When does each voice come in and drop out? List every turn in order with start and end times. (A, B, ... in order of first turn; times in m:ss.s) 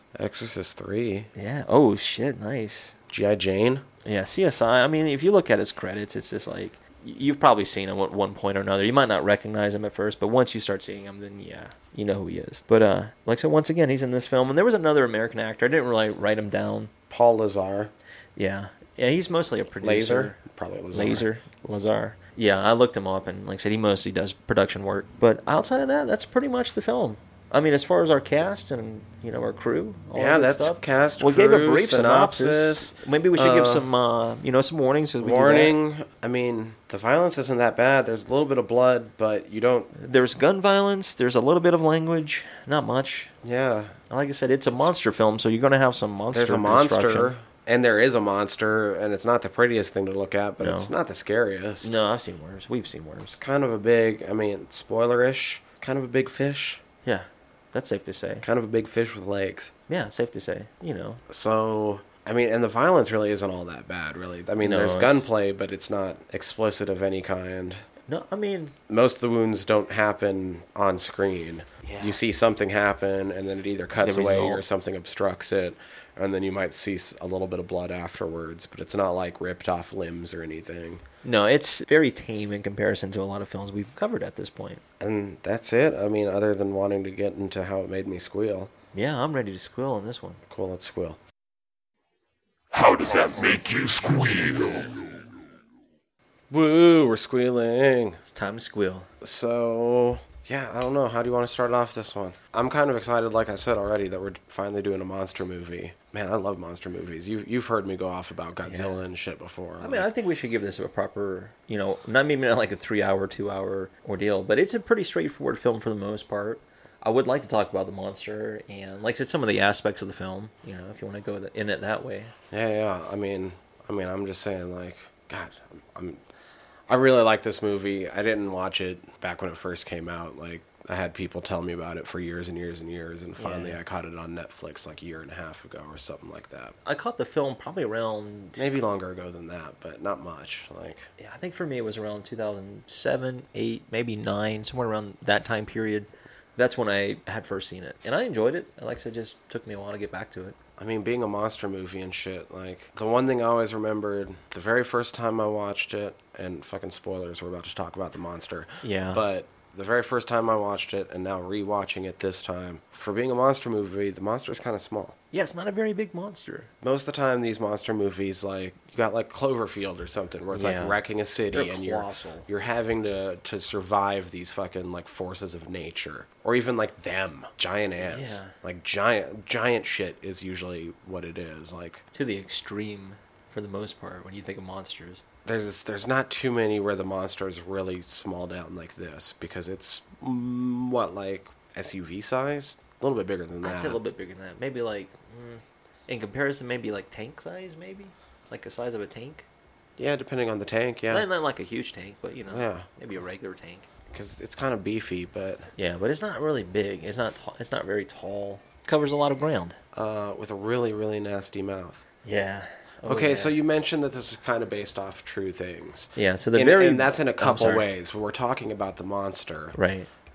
0:00.1-0:01.3 A
0:01.3-0:03.0 B
0:03.1-0:03.8 A
0:04.0-0:16.9 B
0:17.1-0:17.9 A
0:18.4-0:20.4 B
0:19.8-0:21.3 A
0:20.9-0:35.8 B
0:30.1-0:33.9 A
0:35.2-0:39.9 A
0:39.9-0:43.3 B
0:43.4-0:44.0 A
0:44.1-0:47.3 B
0:46.3-0:51.9 A
0:50.6-0:50.9 B
0:51.8-0:53.4 B
0:53.3-0:56.8 A
0:57.0-0:58.4 B
0:58.4-0:59.7 A
0:59.9-1:01.2 B
1:01.3-1:07.8 A
1:04.6-1:05.3 B
1:08.1-1:08.7 B
1:08.9-1:21.0 A
1:11.8-1:12.2 B
1:14.0-1:14.6 B
1:21.2-1:24.8 B
1:25.0-1:28.7 A
1:28.9-1:30.4 B
1:30.5-1:31.2 A
1:32.7-1:35.2 C
1:36.5-1:38.2 A
1:38.3-1:39.1 B
1:39.2-1:50.1 A
1:48.6-1:49.0 B
1:49.8-2:02.3 B
2:02.5-2:06.2 A
2:06.9-2:16.7 A
2:13.4-2:13.8 B
2:16.8-2:18.7 B
2:18.6-2:21.1 A
2:21.2-2:30.6 B
2:30.8-2:45.2 A
2:38.8-2:39.2 B
2:45.3-2:46.7 B
2:46.8-3:02.0 A
2:50.5-2:51.0 B
2:51.5-2:52.5 B
2:58.0-2:58.5 B
3:02.1-3:05.2 B
3:05.4-3:14.0 A
3:13.6-3:19.4 B
3:20.0-3:21.3 A
3:21.1-3:23.9 B
3:22.5-3:22.9 A
3:24.1-3:25.7 A
3:25.8-3:29.8 B
3:29.9-3:32.0 A
3:32.2-3:33.5 B
3:33.0-3:39.8 A
3:36.2-3:37.8 B
3:39.7-3:40.1 B